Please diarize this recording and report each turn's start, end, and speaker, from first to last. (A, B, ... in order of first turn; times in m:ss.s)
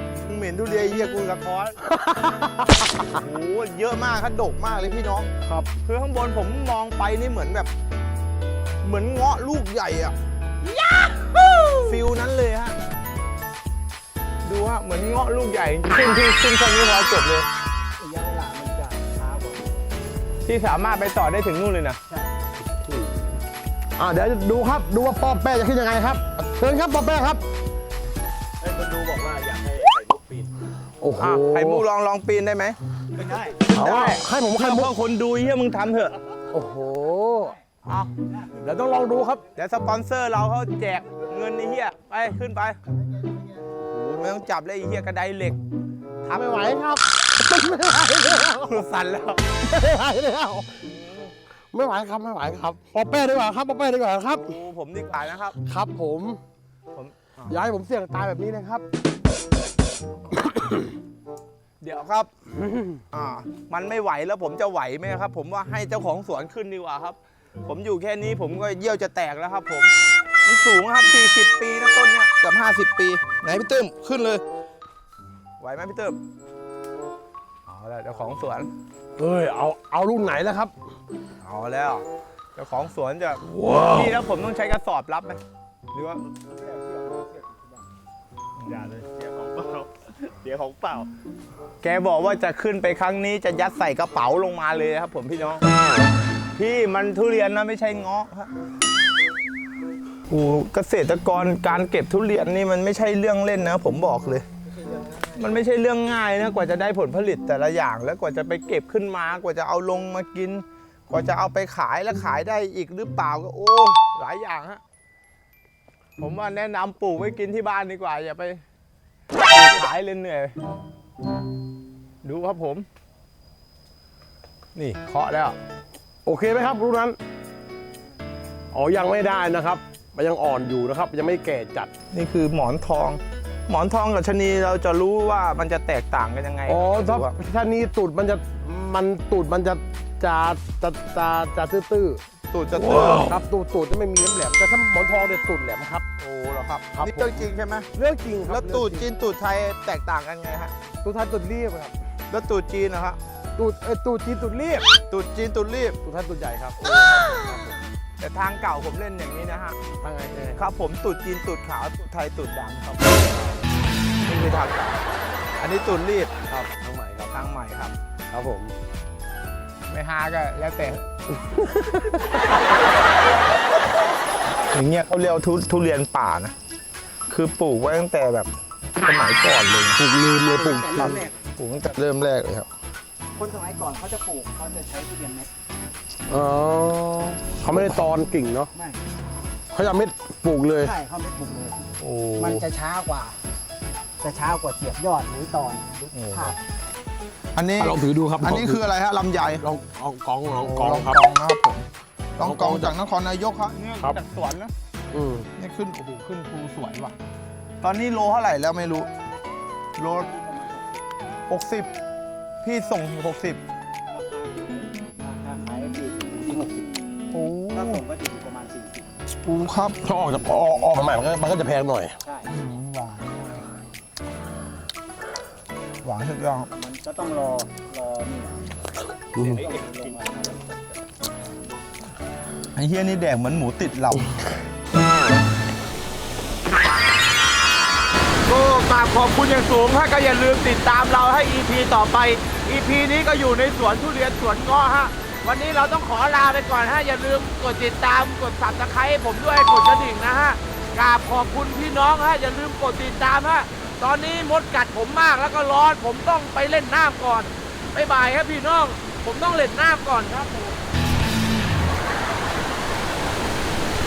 0:00.2-0:01.8 A
0:01.8-0:03.2 B
0:03.0-0:05.3 A
0:05.8-0:07.7 A
0:08.8-0:10.1 A
0:11.8-0:12.8 A
0:14.4-0:17.5 A
0:18.0-0:19.9 C
0:20.5-0:22.0 A
0:24.0-0:27.4 B
0:28.6-0:30.5 D
0:31.0-0:31.9 B
0:31.2-0:32.8 A
0:33.2-0:33.6 D
0:33.2-0:33.5 C
0:33.7-0:36.2 A
0:33.7-0:34.9 B
0:36.5-0:38.1 B
0:38.6-0:39.4 B
0:39.6-0:42.8 A
0:43.9-0:44.3 B
0:44.2-0:45.6 A
0:46.2-0:48.8 B
0:48.6-0:49.6 A
0:49.6-0:50.7 B
0:50.8-0:51.3 A
0:51.7-0:54.6 B
0:54.3-0:55.6 A
0:55.6-0:56.4 B
0:56.9-0:57.6 A
0:57.5-0:58.8 B
1:00.4-1:00.8 B
1:01.8-1:02.3 A
1:03.1-1:14.4 A
1:15.6-1:16.2 A
1:17.7-1:18.7 A
1:19.2-1:20.7 B
1:21.4-1:22.0 A
1:22.6-1:25.4 A
1:25.9-1:26.2 A
1:26.5-1:27.6 C
1:28.6-1:28.9 A
1:28.6-1:31.1 D
1:31.8-1:35.6 A
1:36.6-1:38.5 A
1:40.3-1:44.5 A
1:44.8-1:45.4 C
1:45.3-1:54.8 A
1:56.2-1:58.6 A
1:59.5-2:00.6 A
2:02.2-2:02.9 A
2:04.8-2:05.6 A
2:06.2-2:07.2 B
2:08.7-2:11.9 B
2:12.1-2:17.4 A
2:16.7-2:22.2 B
2:22.5-2:23.3 A
2:22.9-2:26.1 B
2:26.2-2:27.9 A
2:26.9-2:29.1 B
2:28.5-2:30.7 A
2:31.0-2:31.9 B
2:32.3-2:33.2 A
2:33.6-2:34.9 B
2:35.1-2:36.0 A
2:36.0-2:37.8 B
2:36.8-2:37.5 A
2:38.2-2:39.8 A
2:40.0-2:40.6 B
2:40.6-2:43.6 A
2:44.2-2:45.1 A
2:45.6-2:46.3 A
2:46.5-2:47.3 B
2:47.3-2:48.0 A
2:48.3-2:48.7 B
2:49.9-2:51.0 A
2:51.4-2:52.3 B
2:54.7-2:56.5 A
2:57.3-3:00.0 A
3:00.0-3:01.2 B
3:00.4-3:01.4 C
3:01.0-3:02.7 A
3:03.4-3:05.5 C
3:06.3-3:08.7 B
3:08.8-3:09.0 C
3:09.7-3:10.9 B
3:10.8-3:13.4 C
3:12.0-3:12.7 A
3:14.2-3:16.6 C
3:16.1-3:16.5 A
3:17.6-3:19.6 A
3:17.8-3:18.8 B
3:19.6-3:21.2 B
3:20.6-3:24.7 A
3:22.4-3:22.9 B
3:25.1-3:25.5 B
3:25.6-3:27.1 A
3:27.8-3:29.1 A
3:30.0-3:30.3 A
3:30.1-3:31.0 C
3:31.5-3:31.9 A
3:32.6-3:33.6 A
3:34.1-3:39.1 C
3:37.3-3:38.0 A
3:39.4-3:40.0 A
3:40.0-3:42.1 B
3:42.2-3:42.5 C
3:42.5-3:43.7 A
3:46.0-3:46.7 A
3:46.7-3:48.6 C
3:49.4-3:50.6 D
3:49.4-3:50.6 C
3:52.8-3:54.4 A
3:58.4-4:20.8 A